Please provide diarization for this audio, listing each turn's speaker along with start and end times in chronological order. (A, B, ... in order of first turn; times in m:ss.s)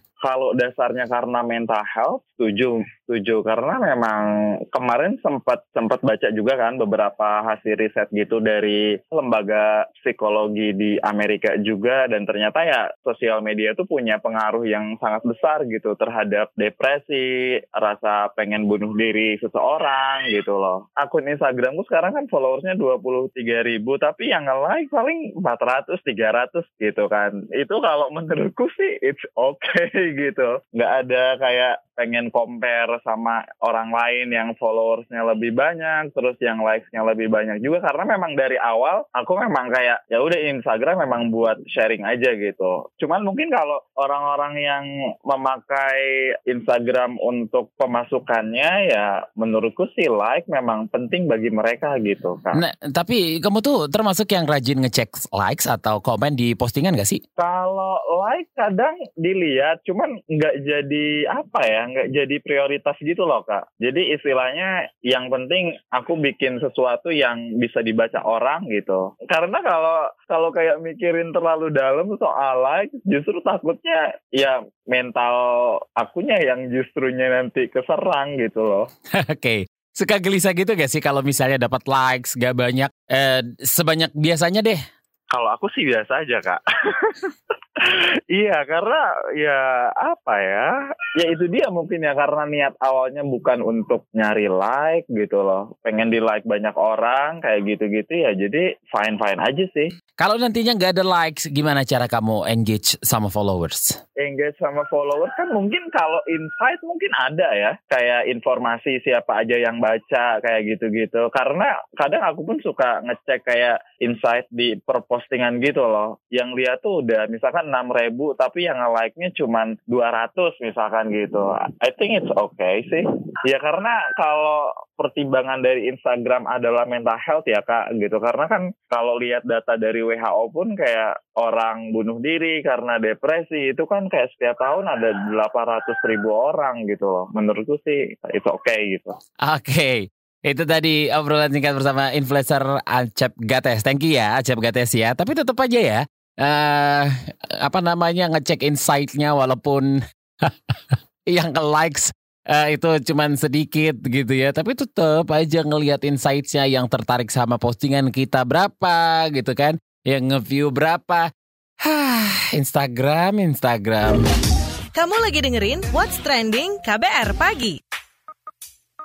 0:00.2-0:52.6 A
0:52.5-0:57.2 B
0:57.4-1:18.8 A
1:19.1-1:24.8 B
1:25.3-1:39.9 A
1:40.2-1:44.0 B
1:44.2-2:19.2 A
2:19.4-2:44.3 B
2:44.9-2:47.8 C